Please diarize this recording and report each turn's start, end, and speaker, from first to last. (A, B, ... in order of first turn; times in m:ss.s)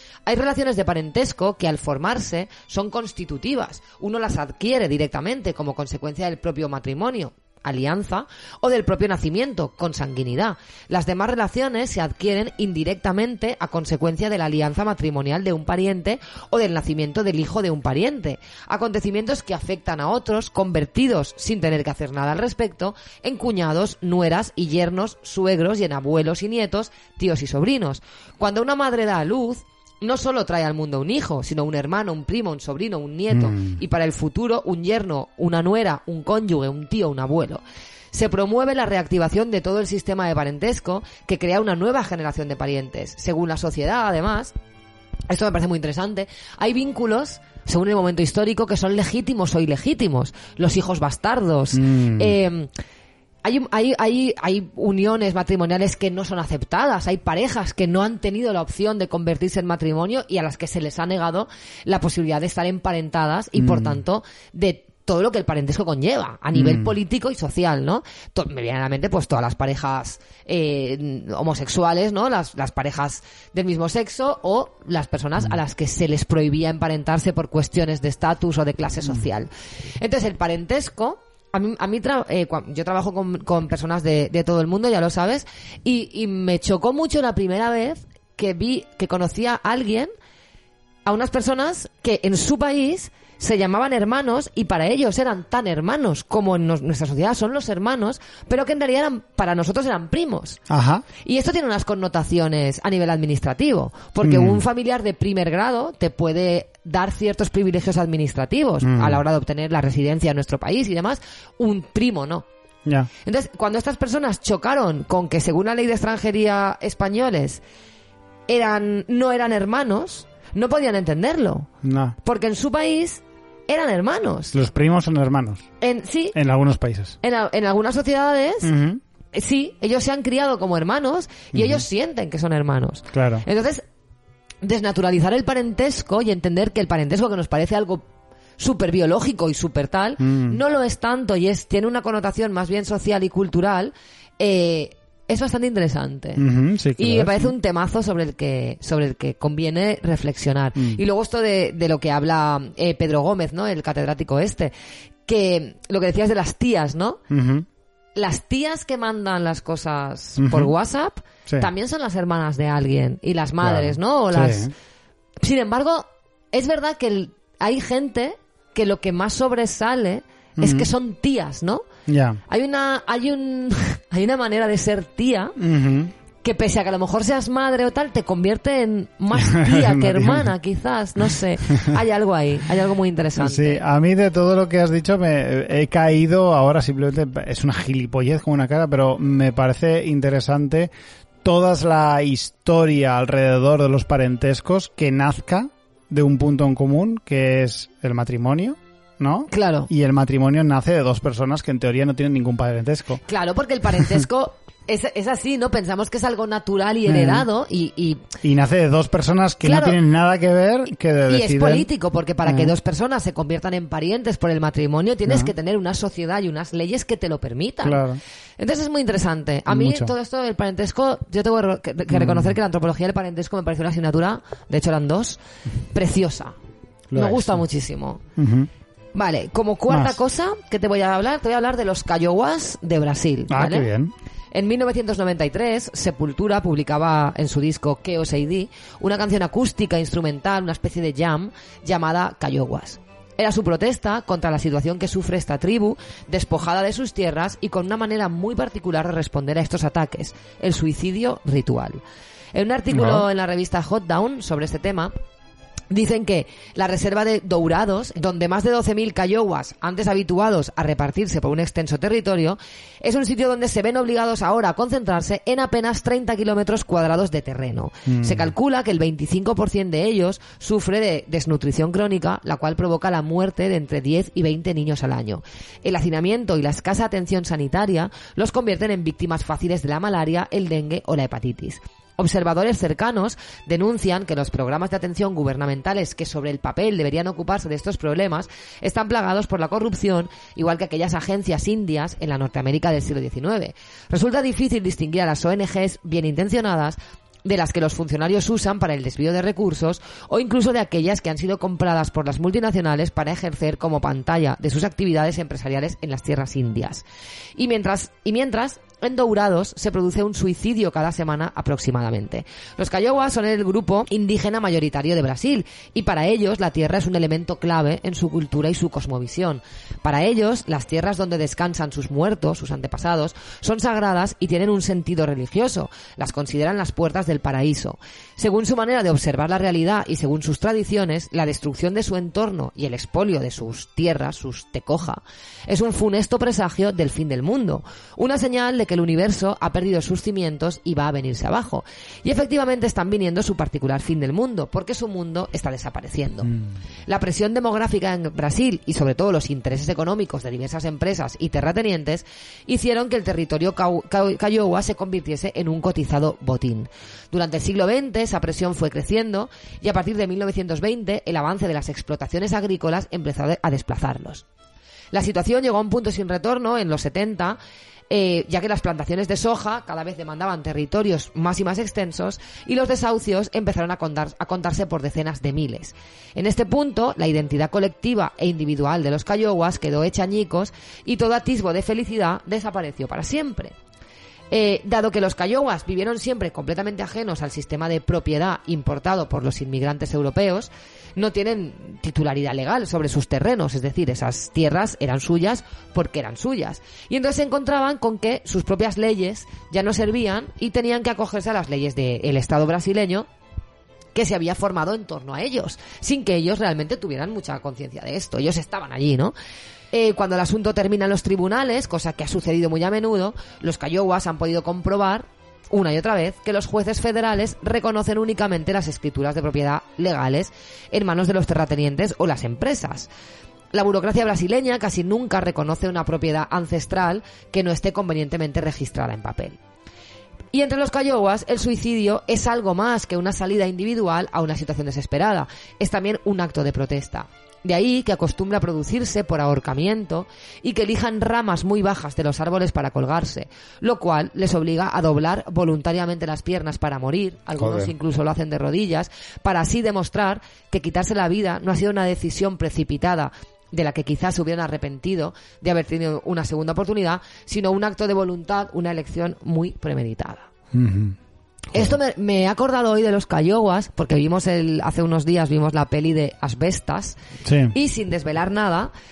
0:00.3-0:44.6 A
0:33.3-0:33.8 B
0:45.3-0:52.7 A
0:51.7-0:52.4 B
0:53.4-1:19.5 A
1:03.6-1:04.0 B
1:06.5-1:06.9 B
1:20.0-1:30.1 A
1:31.1-1:40.6 A
1:40.7-1:41.0 B
1:41.2-1:52.5 A
1:44.2-1:44.6 B
1:48.8-1:49.2 B
1:53.2-1:57.6 A
1:58.5-2:01.7 A
2:01.8-2:02.2 B
2:02.2-2:04.6 A
2:04.5-2:05.7 B
2:05.8-2:06.4 A
2:06.3-2:07.2 B
2:07.2-2:08.7 A
2:08.6-2:09.0 B
2:09.3-2:13.8 A
2:11.5-2:11.8 B
2:13.1-2:13.4 B
2:14.6-2:18.0 A
2:18.6-2:26.5 A
2:20.2-2:20.6 B
2:26.4-2:27.5 B
2:27.0-2:34.7 A
2:30.8-2:31.0 B
2:35.3-2:37.2 A
2:37.3-2:37.7 B
2:38.2-2:44.7 A
2:40.4-2:40.7 B
2:43.6-2:44.7 B
2:45.4-2:51.8 A
2:50.6-2:50.9 B
2:52.1-2:52.4 B
2:52.5-2:55.6 A
2:55.6-2:56.1 B
2:56.4-3:03.8 A
2:59.3-3:00.5 B
3:03.4-3:10.9 B
3:11.4-3:23.2 B
3:19.5-3:19.9 A
3:23.3-3:28.2 A
3:27.1-3:27.5 B
3:28.4-3:31.9 B
3:29.6-3:30.0 A
3:31.3-3:38.0 A
3:32.4-3:32.7 B
3:37.8-3:38.2 B
3:38.6-3:45.4 A
3:39.7-3:40.1 B
3:42.1-3:42.5 B
3:45.9-3:46.6 A
3:47.1-3:47.6 B
3:47.1-3:48.2 A
3:48.4-3:48.7 B
3:49.2-3:53.9 A
3:49.9-3:50.2 B
3:53.5-3:54.1 B
3:54.5-4:12.0 A
4:12.5-4:15.1 A
4:12.9-4:13.3 B
4:15.9-5:07.0 A
4:28.1-4:28.5 B
5:07.6-5:46.5 A
5:47.1-6:04.4 A
6:05.1-6:07.6 A
6:08.1-6:23.8 A
6:24.5-6:43.3 A
6:44.2-6:49.4 A
6:49.9-7:03.1 A
7:03.7-7:09.6 A
7:10.5-7:40.5 A
7:27.6-7:27.9 B
7:40.7-7:41.2 B
7:41.7-7:47.2 A
7:47.4-7:47.7 B
7:47.7-7:48.9 A